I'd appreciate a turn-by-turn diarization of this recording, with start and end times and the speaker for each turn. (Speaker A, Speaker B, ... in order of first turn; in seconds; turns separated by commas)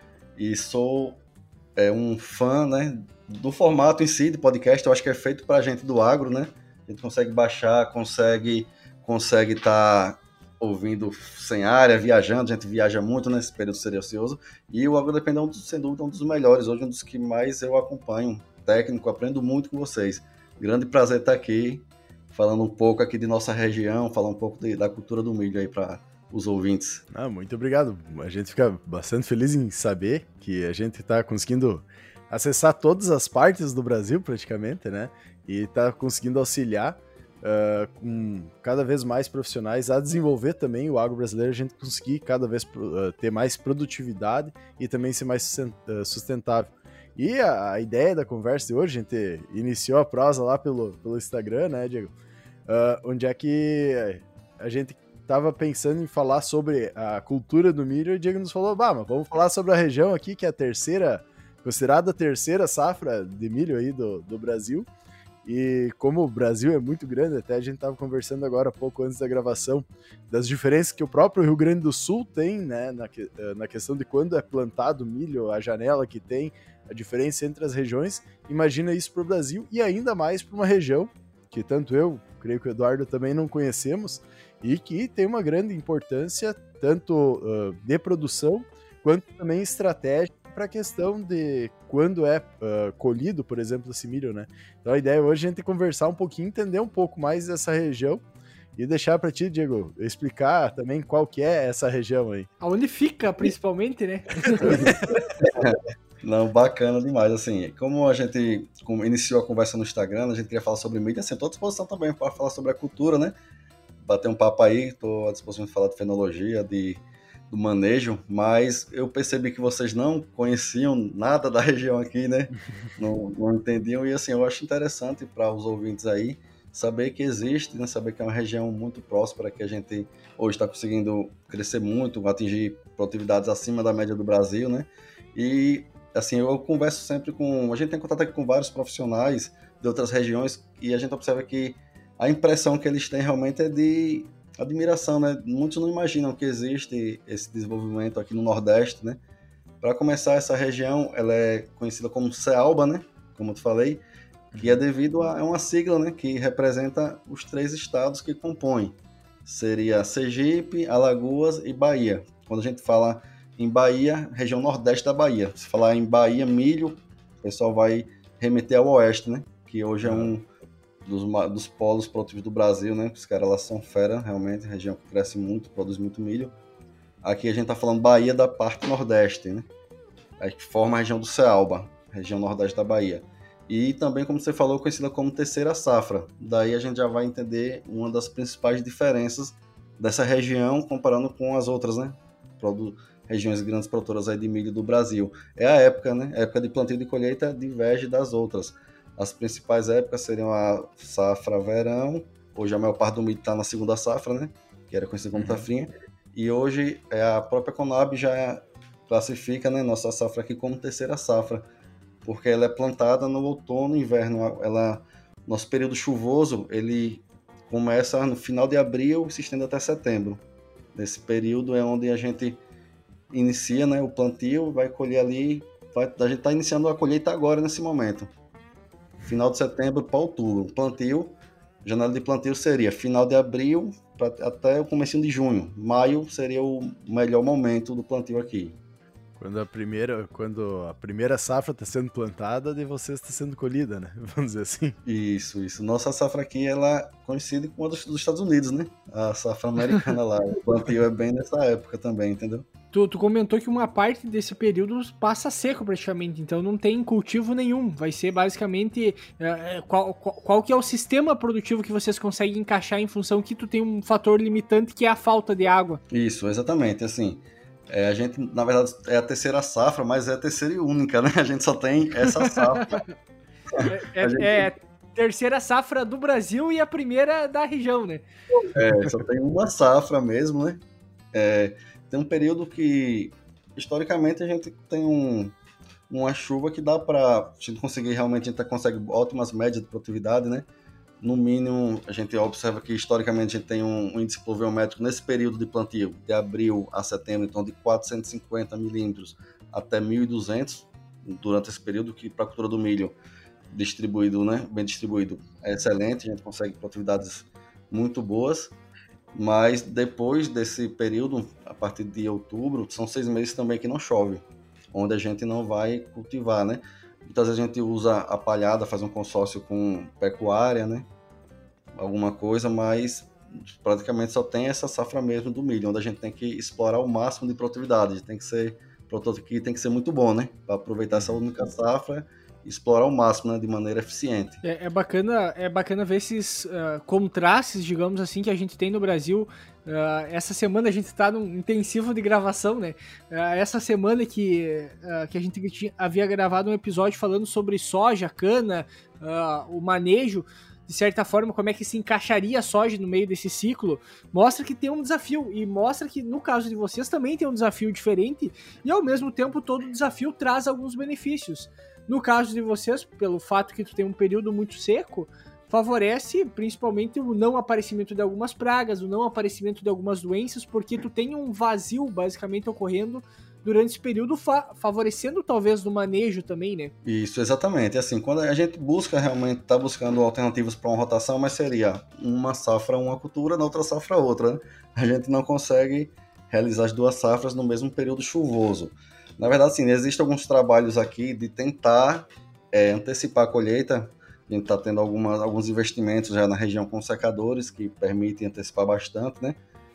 Speaker A: 0.3-1.2, Speaker A: 1.8-27.0, Speaker B: 27.1-52.1, Speaker B: 52.7-64.9, Speaker B: 65.4-98.2, Speaker B: 98.8-102.5, Speaker C: 102.6-105.0, Speaker B: 104.5-105.2, Speaker A: 104.6-113.3, Speaker A: 114.0-149.2, Speaker A: 149.8-154.0, Speaker B: 154.5-154.8, Speaker A: 154.6-170.5, Speaker B: 170.0-170.3, Speaker A: 171.0-176.5, Speaker A: 177.2-179.7, Speaker A: 180.4-211.7, Speaker B: 205.3-205.7, Speaker A: 212.2-220.4, Speaker A: 220.9-222.6, Speaker A: 223.3-228.3, Speaker A: 229.2-238.8, Speaker B: 239.4-245.0, Speaker A: 245.0-252.7, Speaker C: 252.9-266.0, Speaker A: 266.1-273.0, Speaker C: 272.4-273.0, Speaker A: 273.7-274.7, Speaker C: 273.8-278.2, Speaker A: 278.7-280.8, Speaker A: 281.3-285.5, Speaker A: 286.1-290.7, Speaker A: 291.2-303.1, Speaker A: 303.7-308.7, Speaker A: 309.3-321.1, Speaker A: 321.9-334.6, Speaker B: 331.1-331.4, Speaker C: 334.6-376.9, Speaker A: 377.0-399.6